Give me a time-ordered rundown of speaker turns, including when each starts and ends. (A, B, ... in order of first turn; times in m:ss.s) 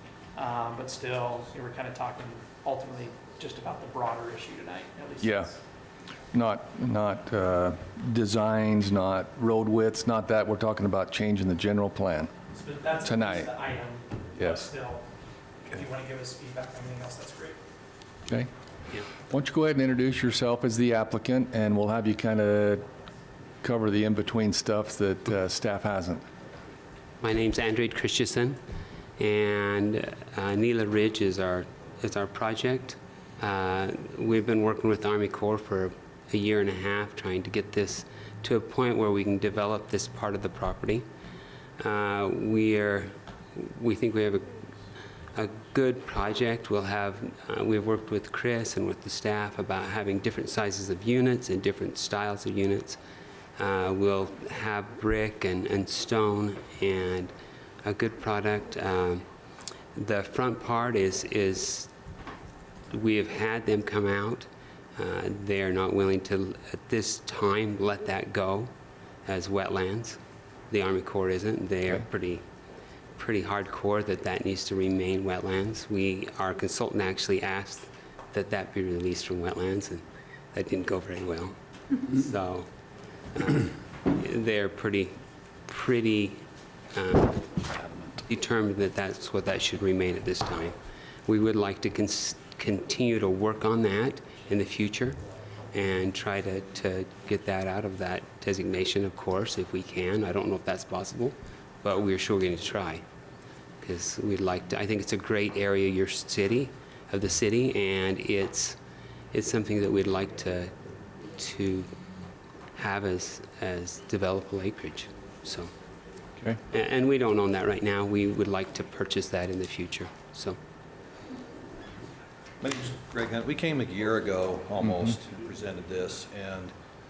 0:00.3-0:05.6 A
0:05.2-0:05.5 B
0:06.3-0:12.3 B
0:12.5-0:15.1 A
0:13.0-0:13.5 B
0:14.4-0:14.7 B
0:15.6-0:17.6 A
0:19.3-0:22.8 B
0:23.6-0:26.2 B
0:27.2-0:28.6 C
0:29.2-0:41.0 C
0:41.8-0:44.6 C
0:45.3-0:53.0 C
0:53.6-0:57.3 C
0:57.8-0:59.2 C
0:59.9-1:01.9 C
1:02.9-1:08.7 C
1:09.2-1:12.4 C
1:13.2-1:27.6 C
1:27.7-1:28.1 D
1:28.2-1:35.2 C
1:35.7-1:43.0 C
1:43.8-1:48.8 C
1:49.3-1:50.7 C
1:51.3-1:51.9 C
1:52.7-1:55.7 C
1:56.7-2:00.6 C
2:02.6-2:06.7 D
2:04.8-2:05.2 B